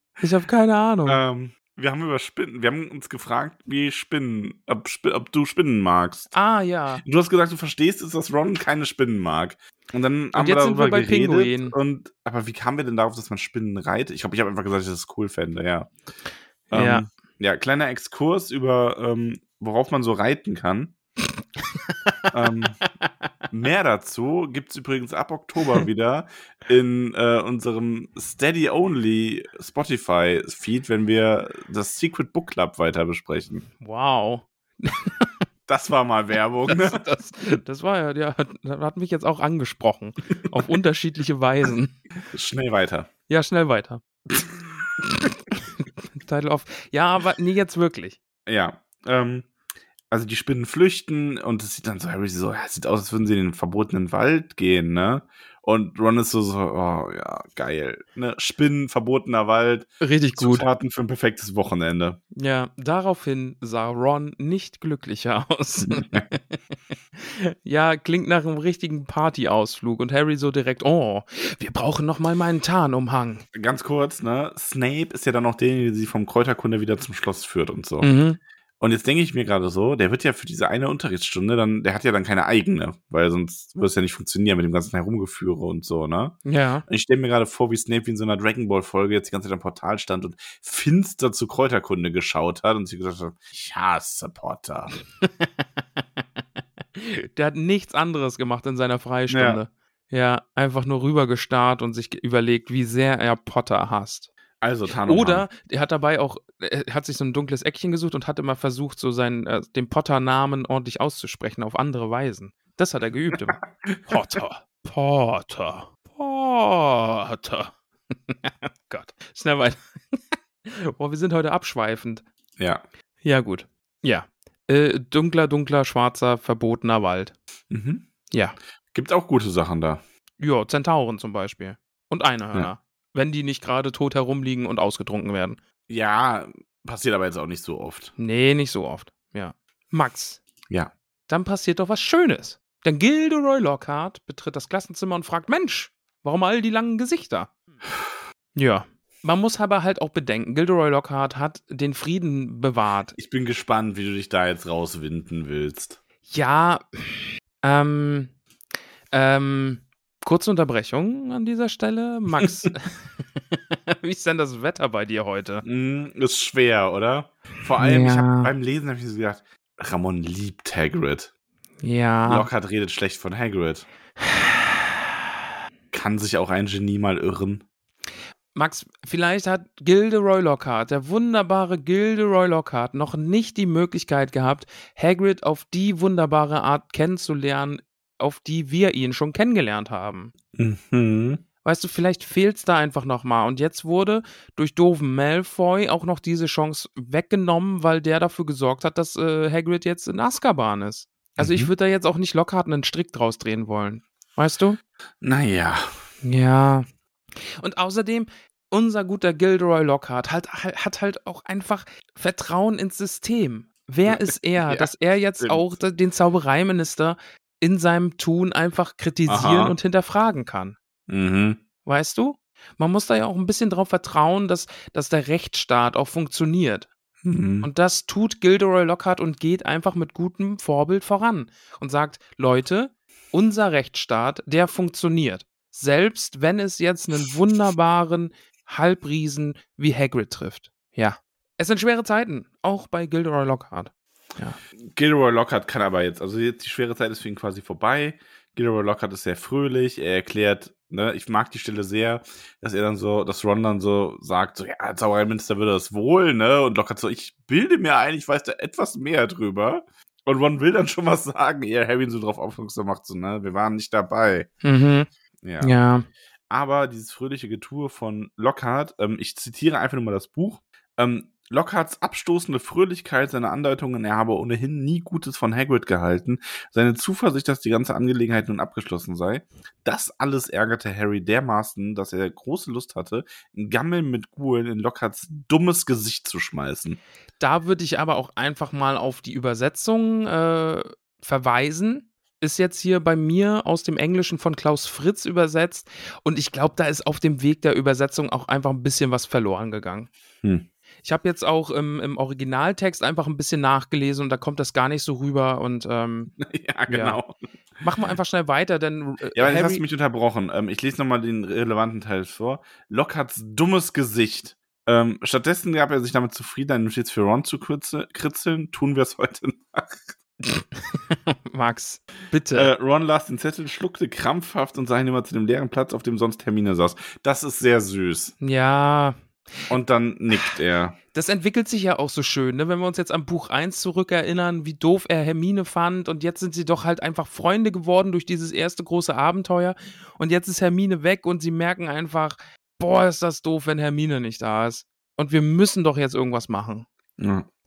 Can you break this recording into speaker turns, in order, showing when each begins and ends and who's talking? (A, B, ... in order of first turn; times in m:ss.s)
0:00.2-0:01.2 A
0:01.0-0:06.3 B
0:06.3-0:07.0 A
0:07.0-0:15.9 B
0:10.3-0:11.8 A
0:16.7-0:20.9 B
0:16.7-0:17.0 A
0:21.6-0:22.2 A
0:22.3-0:22.8 B
0:23.5-0:33.6 B
0:33.8-0:35.3 A
0:35.7-0:37.0 B
0:36.7-0:41.9 A
0:42.3-0:43.1 B
0:43.3-0:44.0 A
0:45.0-0:48.2 A
0:48.4-0:49.5 B
0:50.1-1:02.2 B
1:00.0-1:00.7 A
1:02.3-1:06.6 A
1:05.8-1:06.2 B
1:07.2-1:13.4 A
1:13.5-1:18.1 B
1:18.0-1:18.4 A
1:18.8-1:35.0 B
1:26.4-1:26.8 A
1:35.2-1:35.5 A
1:37.0-1:44.3 A
1:39.3-1:39.6 B
1:44.6-1:45.5 B
1:44.9-2:02.2 A
1:53.8-1:54.2 B
2:02.6-2:02.8 B
2:03.2-2:07.3 A
2:07.7-2:08.1 B
2:08.3-2:08.6 A
2:08.9-2:10.0 B
2:10.4-2:15.6 A
2:15.9-2:18.1 B
2:18.2-2:20.4 A
2:21.3-2:27.5 A
2:28.5-2:33.2 A
2:33.2-2:36.0 B
2:36.3-2:38.3 A
2:39.1-2:45.6 A
2:45.6-2:51.3 B
2:47.8-2:48.5 A
2:51.8-2:52.5 A
2:52.3-2:53.8 B
2:54.2-2:54.8 A
2:55.9-2:57.6 B
2:58.5-3:10.3 A
3:10.5-3:11.4 B
3:11.6-3:24.8 A
3:21.4-3:21.7 B
3:25.2-3:25.9 B
3:26.2-3:40.8 A
3:34.0-3:35.7 B
3:39.3-3:39.8 B
3:41.1-3:41.6 B
3:41.8-3:46.9 A
3:47.2-3:47.7 B
3:47.6-4:04.6 A
4:04.9-4:24.5 B
4:24.6-4:25.1 A
4:25.4-4:25.8 B
4:25.6-4:26.0 A
4:26.5-4:47.0 B
4:47.4-5:00.1 A
5:01.0-5:06.3 A
5:06.4-5:07.4 B
5:06.9-5:07.2 A
5:07.8-5:09.8 A
5:09.3-5:20.1 B
5:20.4-5:22.7 A
5:22.5-5:28.3 B
5:28.4-5:29.7 A
5:29.7-5:31.0 B
5:31.1-5:46.9 A
5:47.2-5:47.5 B